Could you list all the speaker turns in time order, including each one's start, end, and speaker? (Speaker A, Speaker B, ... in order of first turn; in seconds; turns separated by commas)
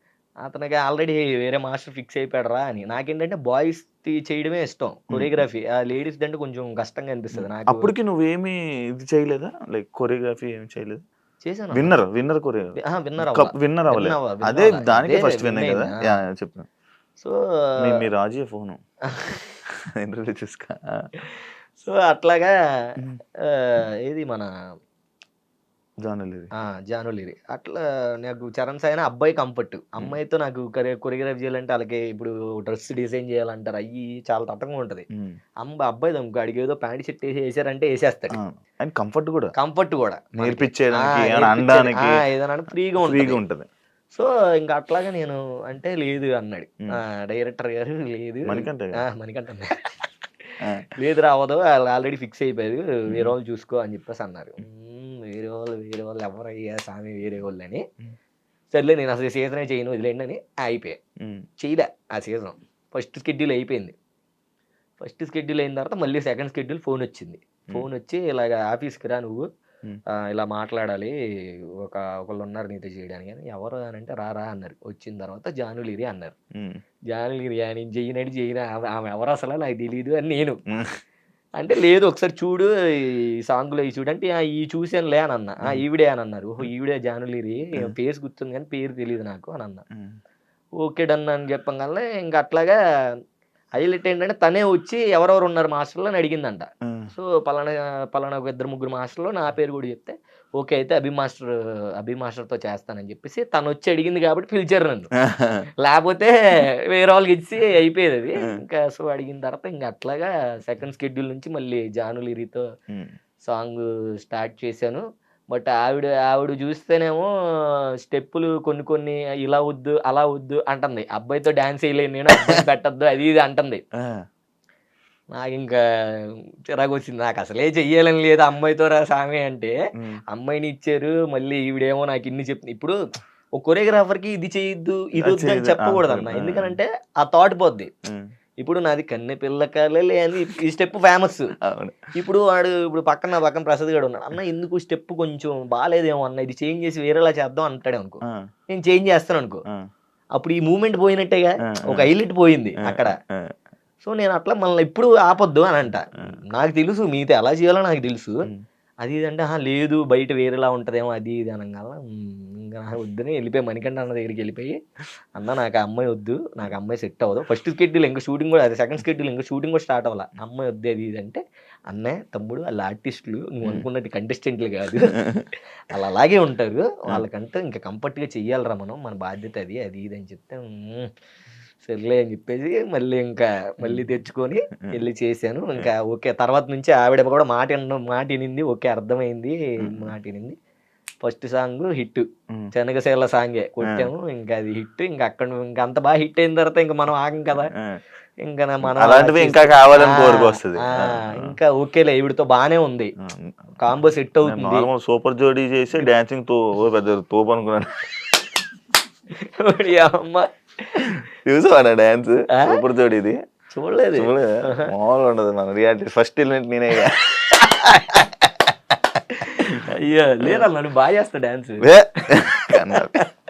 Speaker A: 0.4-7.9, Speaker B: 5.1-5.4, Speaker B: 7.3-11.0, Speaker A: 11.4-11.9, Speaker B: 11.7-16.7, Speaker A: 12.8-16.0, Speaker A: 17.2-18.0, Speaker B: 17.8-18.8, Speaker B: 20.0-21.1, Speaker A: 21.4-22.5, Speaker A: 23.4-24.5, Speaker B: 26.0-26.5, Speaker A: 26.6-35.0, Speaker A: 35.6-38.4, Speaker B: 38.3-39.5, Speaker A: 39.5-43.4, Speaker B: 40.4-42.2, Speaker B: 43.0-43.7, Speaker A: 44.1-49.9, Speaker B: 48.5-49.0, Speaker A: 50.8-57.8, Speaker B: 53.1-53.3, Speaker A: 58.7-61.0, Speaker B: 61.2-61.5, Speaker A: 61.6-64.0, Speaker A: 65.0-69.5, Speaker A: 70.1-71.1, Speaker A: 71.8-76.3, Speaker A: 77.1-80.6, Speaker A: 81.6-89.8, Speaker B: 89.9-90.2, Speaker A: 90.8-92.8, Speaker A: 93.8-105.1, Speaker B: 96.8-97.1, Speaker B: 105.2-105.7, Speaker A: 105.8-112.7, Speaker A: 113.4-123.8, Speaker A: 125.3-129.7, Speaker A: 130.3-133.0, Speaker A: 133.6-137.9, Speaker B: 135.2-136.8, Speaker A: 138.6-141.5, Speaker B: 141.6-142.1, Speaker A: 142.1-149.6, Speaker A: 150.3-153.1, Speaker B: 151.7-152.1, Speaker B: 152.8-153.5, Speaker A: 154.0-158.5, Speaker A: 159.0-164.8, Speaker A: 165.3-175.2, Speaker A: 175.9-181.1, Speaker A: 181.8-190.6, Speaker B: 183.8-184.1, Speaker B: 189.8-190.1, Speaker A: 191.2-197.7, Speaker B: 197.7-198.0, Speaker A: 198.4-203.1, Speaker B: 198.8-201.6, Speaker B: 203.2-203.7, Speaker A: 203.8-204.9, Speaker B: 204.4-208.1, Speaker A: 209.4-211.2, Speaker B: 211.0-213.4, Speaker A: 212.5-212.8, Speaker A: 213.7-214.9, Speaker B: 214.2-217.3, Speaker A: 217.5-223.3, Speaker B: 221.8-223.2